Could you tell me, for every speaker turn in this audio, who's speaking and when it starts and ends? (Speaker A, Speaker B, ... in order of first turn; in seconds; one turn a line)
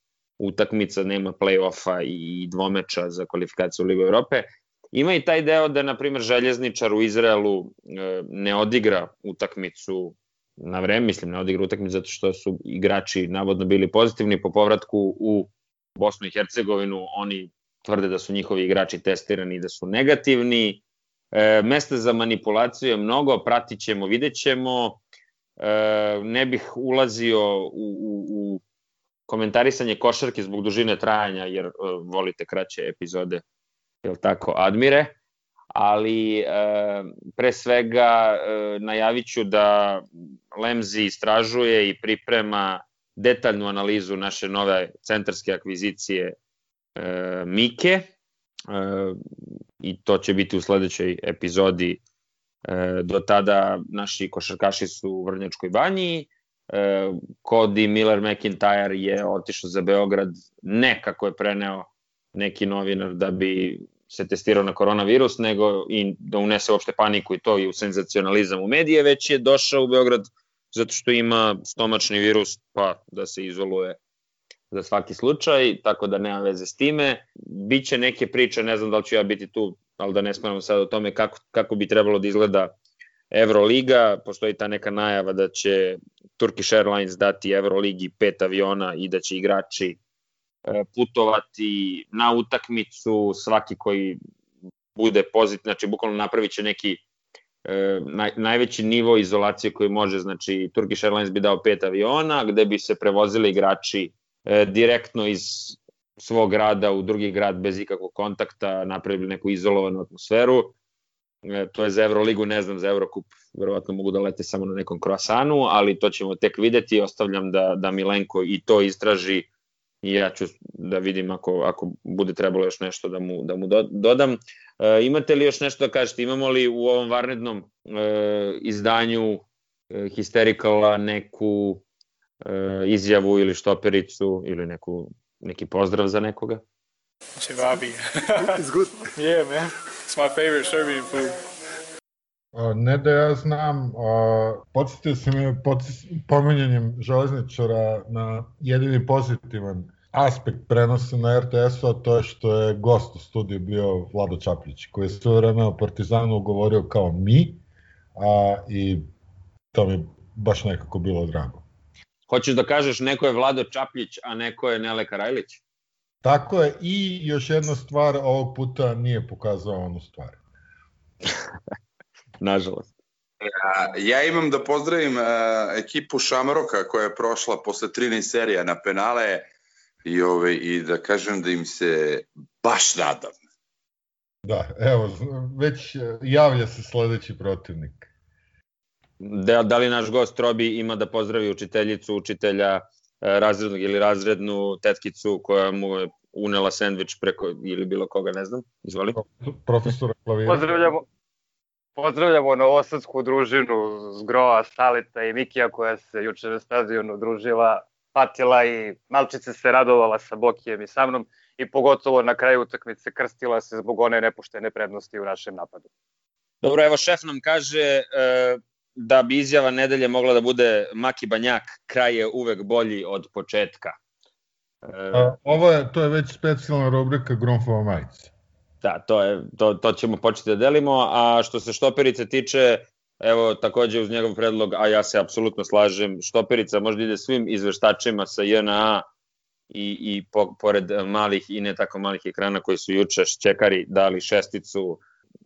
Speaker A: 0.4-20.8
Speaker A: 21.3-25.0
Speaker A: 25.6-28.6
Speaker A: 29.3-33.4
Speaker A: 34.0-35.1
Speaker A: 35.8-46.4
Speaker A: 47.0-48.1
Speaker A: 48.7-49.2
Speaker A: 49.8-52.0
Speaker A: 52.7-74.0
Speaker A: 74.7-82.8
Speaker A: 83.3-90.0
Speaker A: 90.7-94.2
Speaker A: 95.0-97.0
Speaker A: 97.7-110.8
Speaker A: 111.5-119.5
Speaker A: 120.0-131.8
Speaker A: 132.5-136.6
Speaker B: 137.4-141.4
Speaker C: 142.5-157.6
Speaker C: 158.2-159.1
Speaker C: 159.7-161.7
Speaker A: 162.3-165.6
Speaker C: 166.2-170.4
Speaker A: 172.4-172.9
Speaker D: 173.4-179.5
Speaker D: 180.1-183.3
Speaker C: 184.4-188.1
Speaker A: 189.2-199.2
Speaker C: 199.1-200.9
Speaker E: 200.5-201.1
Speaker E: 202.0-215.9
Speaker A: 216.6-224.0
Speaker A: 224.9-225.3
Speaker C: 225.1-228.3
Speaker A: 228.8-239.1
Speaker A: 239.7-245.0